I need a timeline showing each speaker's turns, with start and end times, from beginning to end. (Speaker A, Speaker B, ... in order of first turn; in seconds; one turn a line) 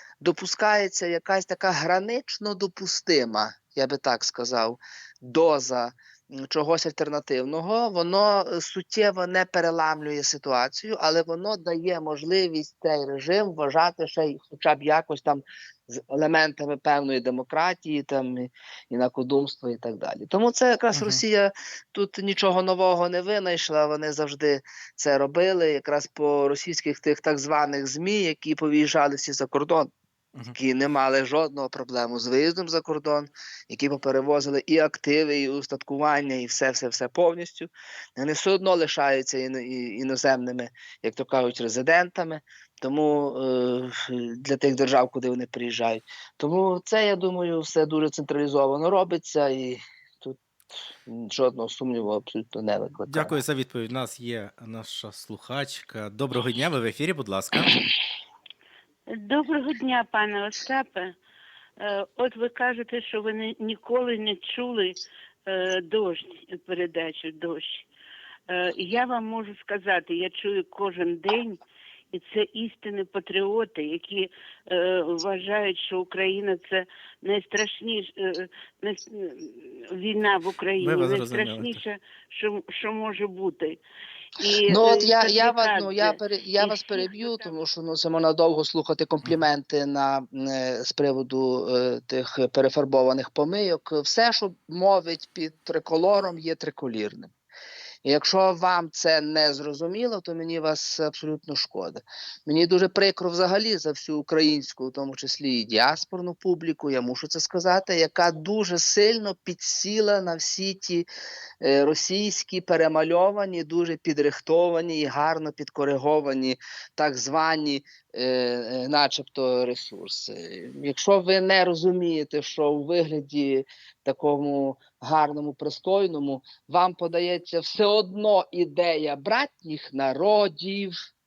Speaker A: 0.2-29.9
Speaker B: 20.9-21.2
Speaker A: 30.5-53.4
Speaker B: 53.1-57.8
Speaker C: 59.1-61.1
Speaker C: 61.8-67.9
Speaker C: 68.5-71.6
Speaker C: 72.1-83.8
Speaker B: 80.8-81.8
Speaker C: 84.4-87.5
Speaker A: 84.7-97.3
Speaker A: 98.0-111.1
Speaker A: 111.6-131.0